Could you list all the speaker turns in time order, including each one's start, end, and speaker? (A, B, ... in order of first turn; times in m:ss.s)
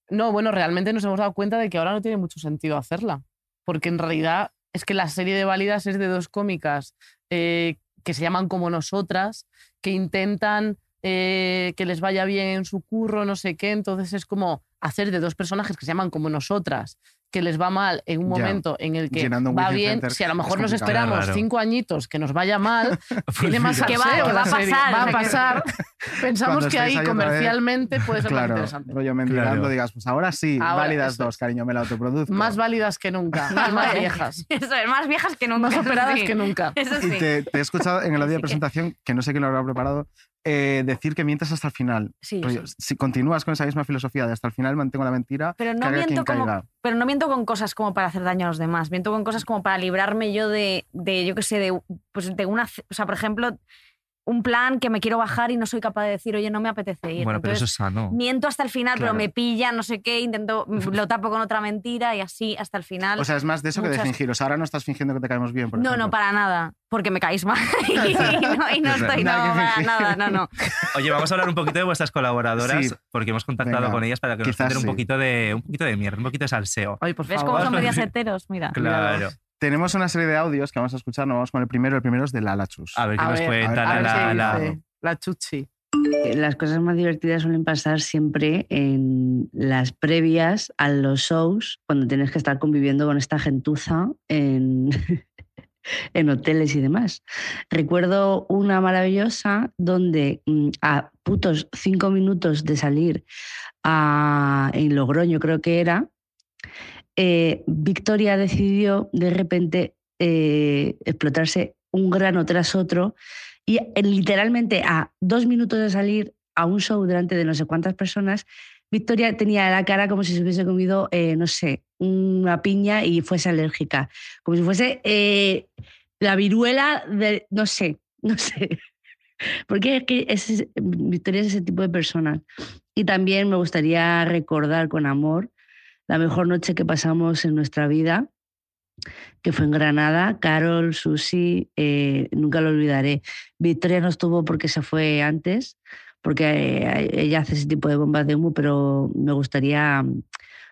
0:00.1-0:29.0 A
0:18.2-0:21.0 B
0:20.9-0:21.4 C
0:23.3-0:24.3 C
0:23.5-0:24.2 B
0:23.9-0:25.6 D
0:26.4-0:27.6 B
0:28.2-0:32.6 B
0:29.3-0:29.7 C
0:30.6-0:31.4 A
0:32.3-0:34.4 A
0:33.5-0:37.6 D
0:35.6-0:36.8 A
0:37.0-0:46.6 B
0:38.2-0:38.6 D
0:42.2-0:42.7 D
0:45.6-0:53.6 D
0:54.3-1:04.1 D
0:57.2-0:58.2 C
0:59.0-0:59.2 B
1:03.2-1:06.2 B
1:05.8-1:10.5 D
1:08.1-1:10.8 B
1:10.9-1:18.1 C
1:12.6-1:13.0 B
1:13.6-1:15.0 B
1:17.0-1:17.9 A
1:17.3-1:18.8 D
1:18.7-1:19.4 C
1:18.8-1:19.2 A
1:19.6-1:23.0 B
1:23.0-1:24.7 C
1:23.2-1:25.7 A
1:23.6-1:24.7 B
1:26.2-1:35.2 E
1:36.2-1:43.2 E
1:43.8-1:46.1 E
1:47.2-1:53.2 E
1:53.7-2:05.7 E
2:06.2-2:08.8 E
2:09.7-2:12.4 E
2:13.0-2:15.5 E
2:16.1-2:18.3 E
2:19.4-2:30.2 E